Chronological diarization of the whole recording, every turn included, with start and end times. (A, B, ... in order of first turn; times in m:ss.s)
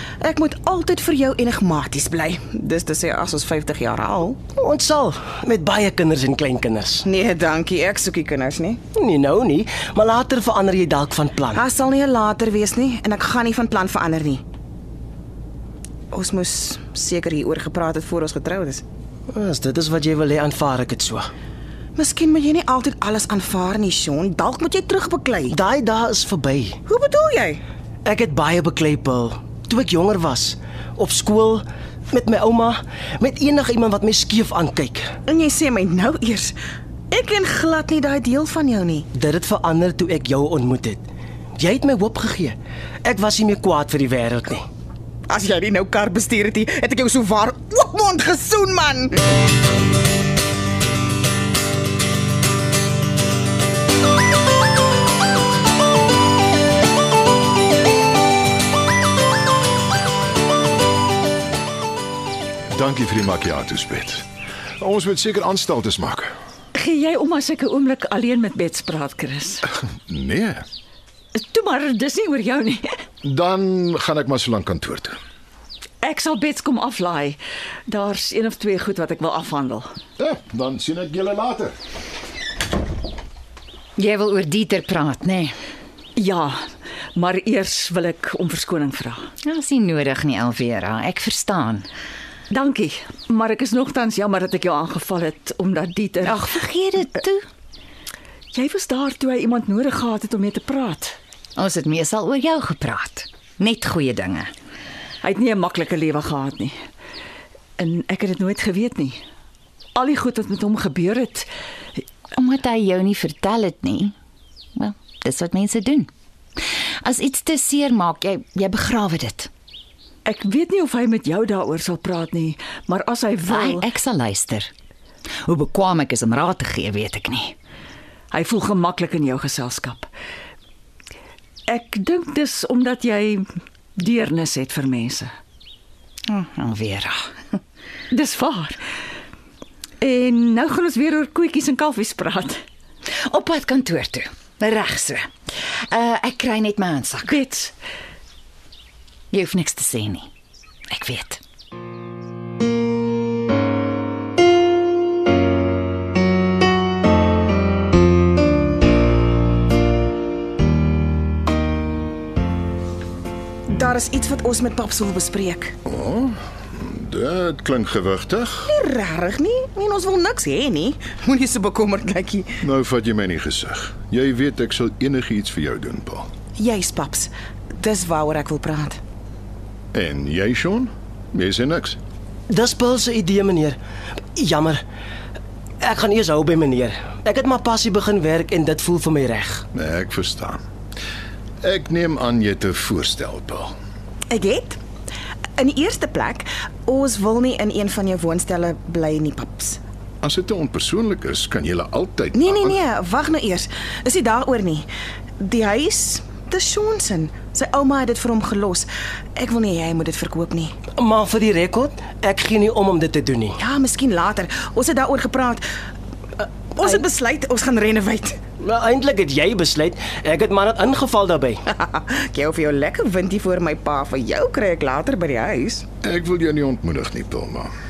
0:00.2-0:04.4 A
0:04.6-0:07.0 B
0:07.0-0:08.8 A
0:08.9-0:11.6 B
0:11.5-0:14.4 A
0:16.1-0:18.8 A
0:19.3-0:21.3 B
0:22.0-0:25.6 A
0:25.5-0:26.8 B
0:26.9-0:27.6 A
0:28.0-0:35.1 B
0:35.3-0:36.5 A
0:37.1-0:39.1 A
0:39.1-0:41.0 B
0:41.6-0:44.6 B
0:45.3-0:49.2 A
1:02.7-1:04.2 C
1:04.8-1:06.3 C
1:06.7-1:09.6 D
1:10.1-1:10.6 C
1:11.3-1:13.0 D
1:13.2-1:15.2 C
1:16.0-1:19.9 D
1:20.2-1:21.7 C
1:24.0-1:25.6 E
1:26.2-1:26.6 D
1:27.2-1:29.3 D
1:29.4-1:31.9 E
1:32.5-1:36.4 D
1:36.2-1:37.4 E
1:38.5-1:41.2 D
1:41.6-1:44.5 E
1:45.2-1:46.7 D
1:47.8-1:49.2 D
1:49.9-1:51.5 D
1:52.3-1:54.1 E
1:54.8-1:56.1 E
1:57.0-1:59.5 E
2:00.2-2:03.8 D
2:03.5-2:04.7 E
2:05.4-2:07.6 E
2:08.3-2:10.1 D
2:11.7-2:13.4 D
2:14.0-2:15.3 D
2:16.3-2:17.3 E
2:18.1-2:18.8 D
2:20.0-2:22.6 D
2:23.2-2:27.4 E
2:27.3-2:27.7 D
2:29.3-2:30.3 E
2:30.9-2:31.4 E
2:43.7-2:45.7 A
2:45.8-2:48.7 C
2:48.7-2:52.6 A
2:52.6-2:56.3 C
2:56.6-2:59.0 A
2:59.9-3:02.0 C
3:02.5-3:03.8 B
3:04.4-3:04.8 B
3:05.8-3:09.6 B
3:09.7-3:10.6 C
3:11.6-3:13.7 C
3:14.3-3:14.8 A
3:15.6-3:19.8 A
3:20.2-3:22.8 C
3:22.3-3:24.9 A
3:25.4-3:30.8 A
3:30.9-3:33.6 B
3:33.6-3:35.6 A
3:36.4-3:38.4 A
3:38.6-3:41.6 B
3:41.7-3:45.8 A
3:46.0-3:47.7 C